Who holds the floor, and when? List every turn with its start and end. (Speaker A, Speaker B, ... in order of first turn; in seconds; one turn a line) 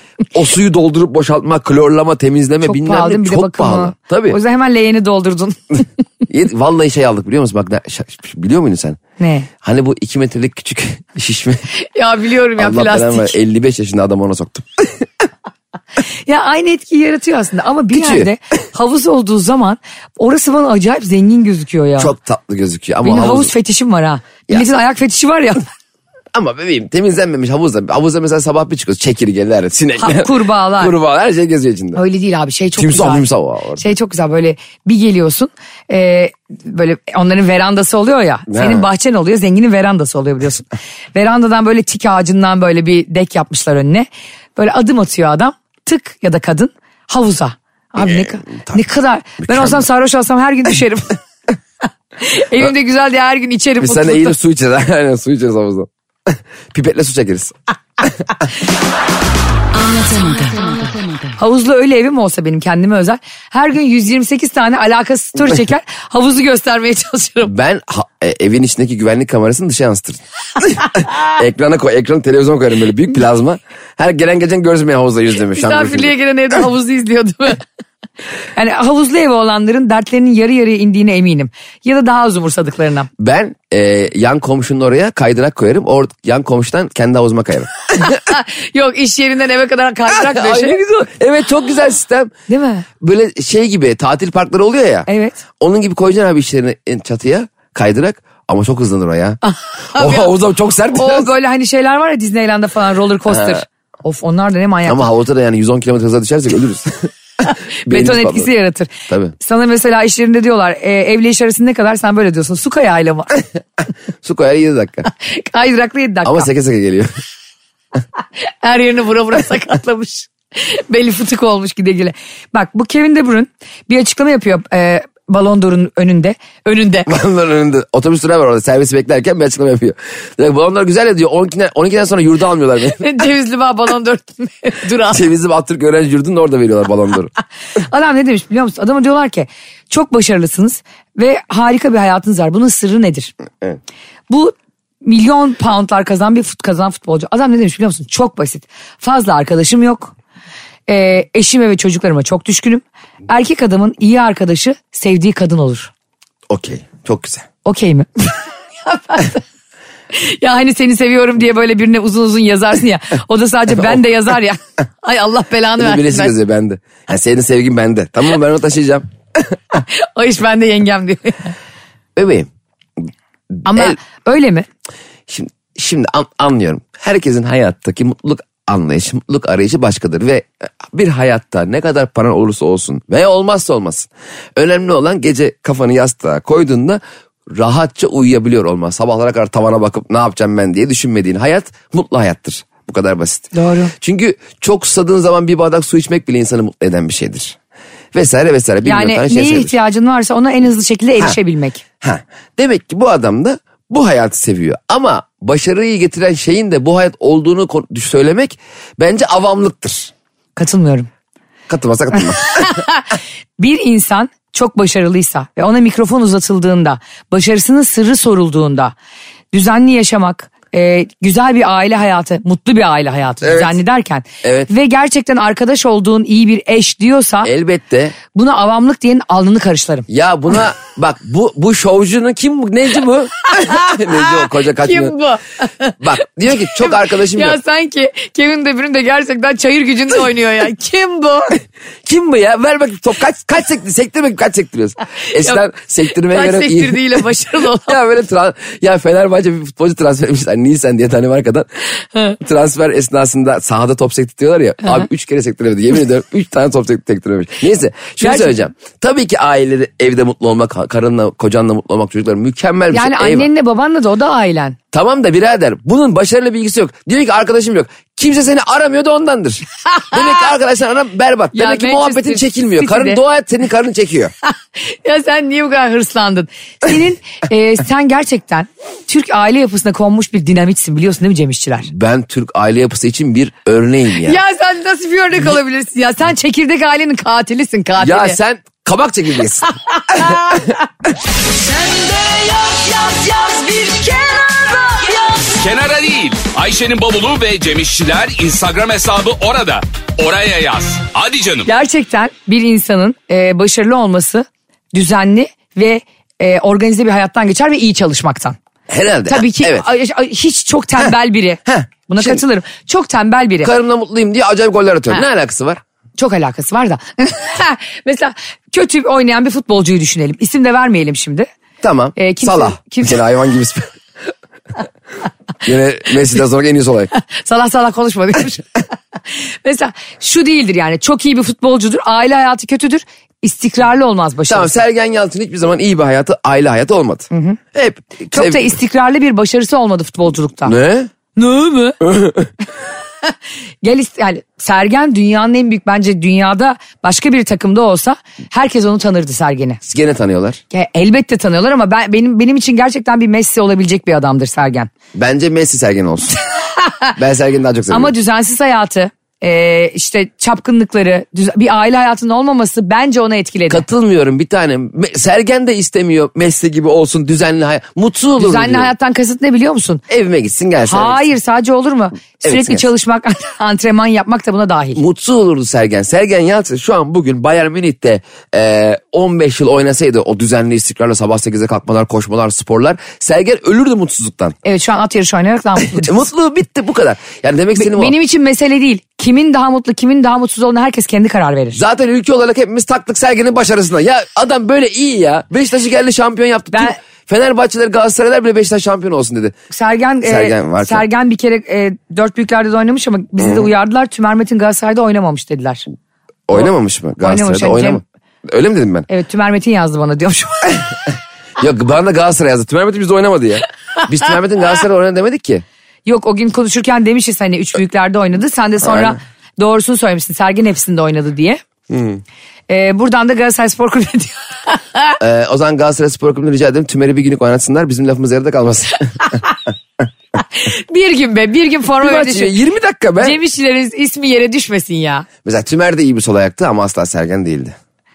Speaker A: 0.3-4.4
Speaker B: 2.6-5.8
Speaker A: 6.3-9.0
Speaker B: 9.2-9.5
Speaker A: 9.6-11.6
Speaker B: 11.7-13.3
Speaker A: 12.6-15.1
Speaker B: 16.3-22.1
Speaker A: 17.9-18.3
Speaker A: 22.0-23.5
Speaker B: 23.0-25.6
Speaker A: 26.3-32.0
Speaker B: 30.0-30.9
Speaker B: 31.9-33.2
Speaker A: 32.8-33.9
Speaker B: 33.8-51.2
Speaker A: 38.5-38.9
Speaker A: 48.0-48.8
Speaker A: 49.4-49.8
Speaker B: 52.2-54.4
Speaker A: 53.8-58.2
Speaker B: 59.9-67.5
Speaker A: 67.4-76.1
Speaker B: 75.5-77.6
Speaker B: 78.5-83.1
Speaker A: 83.2-88.2
Speaker B: 88.0-90.8
Speaker A: 90.1-92.3
Speaker B: 92.5-92.9
Speaker A: 93.0-95.1
Speaker B: 95.1-95.4
Speaker A: 95.6-99.4
Speaker B: 99.4-100.3
Speaker A: 99.9-101.3
Speaker B: 100.9-105.0
Speaker A: 103.3-103.6
Speaker A: 104.8-107.1
Speaker B: 107.5-113.4
Speaker A: 107.8-108.5
Speaker A: 109.1-109.3
Speaker A: 114.2-115.1
Speaker B: 115.2-116.5
Speaker A: 116.2-117.1
Speaker B: 118.6-127.1
Speaker A: 127.1-133.1
Speaker B: 132.9-135.2
Speaker A: 135.1-137.3
Speaker B: 137.8-143.3
Speaker B: 144.3-150.1
Speaker B: 150.9-155.9
Speaker A: 156.5-157.5
Speaker B: 157.6-159.4
Speaker B: 160.1-166.3
Speaker A: 165.8-169.5
Speaker B: 169.9-171.5
Speaker A: 172.2-172.5
Speaker A: 173.6-174.0
Speaker B: 173.7-174.7
Speaker A: 175.3-197.6
Speaker B: 193.5-193.9
Speaker A: 198.1-199.7
Speaker B: 198.8-201.8
Speaker A: 202.0-210.1
Speaker B: 210.6-211.1
Speaker A: 211.7-212.8
Speaker B: 212.4-213.1
Speaker B: 213.6-218.9
Speaker B: 219.5-227.5
Speaker A: 223.4-223.8
Speaker A: 224.4-224.7
Speaker A: 227.4-228.2
Speaker B: 228.3-230.1
Speaker A: 230.1-235.1
Speaker B: 233.4-236.0
Speaker A: 236.0-237.6
Speaker B: 236.5-241.6
Speaker A: 242.0-247.1
Speaker B: 246.2-248.0
Speaker A: 247.8-251.7
Speaker A: 252.4-263.5
Speaker B: 258.2-258.6
Speaker B: 262.9-264.8
Speaker A: 264.9-274.3
Speaker B: 269.9-270.4
Speaker B: 271.5-273.2
Speaker B: 274.7-281.9
Speaker A: 281.9-284.4
Speaker B: 284.2-288.4
Speaker A: 288.0-290.7
Speaker B: 289.7-290.8
Speaker C: 291.7-292.2
Speaker B: 292.7-295.5
Speaker C: 295.4-301.7
Speaker B: 301.6-308.6
Speaker A: 308.9-309.9
Speaker B: 309.3-313.7
Speaker A: 311.6-312.4
Speaker A: 313.6-315.8
Speaker B: 316.2-321.5
Speaker A: 321.8-323.9
Speaker B: 322.1-323.2
Speaker A: 325.6-327.1
Speaker B: 327.3-328.7
Speaker B: 329.3-334.8
Speaker A: 334.5-338.6
Speaker B: 337.3-337.6
Speaker B: 338.2-340.8
Speaker A: 340.6-341.1
Speaker B: 341.3-342.0
Speaker A: 342.0-342.5
Speaker B: 343.8-349.8
Speaker A: 349.8-350.6
Speaker B: 350.7-354.9
Speaker A: 355.1-356.4
Speaker B: 356.7-357.1
Speaker A: 357.2-358.1
Speaker B: 357.9-363.8
Speaker A: 363.7-368.9
Speaker B: 368.4-370.0
Speaker A: 370.1-371.3
Speaker B: 370.9-375.0
Speaker A: 372.4-372.9
Speaker A: 374.9-384.6
Speaker B: 384.6-386.2
Speaker A: 385.8-388.1
Speaker B: 387.8-391.8
Speaker A: 391.7-399.5
Speaker B: 399.7-405.8
Speaker A: 400.2-401.1
Speaker A: 403.4-403.7
Speaker A: 406.5-409.1
Speaker B: 407.2-408.0
Speaker B: 409.1-410.9
Speaker A: 411.6-415.6
Speaker B: 416.1-421.6
Speaker A: 418.8-419.1
Speaker A: 421.9-422.2
Speaker B: 422.7-425.2
Speaker A: 425.2-429.4
Speaker B: 429.2-429.6
Speaker B: 430.4-432.5
Speaker A: 432.0-433.4
Speaker B: 433.2-435.3
Speaker A: 435.4-437.7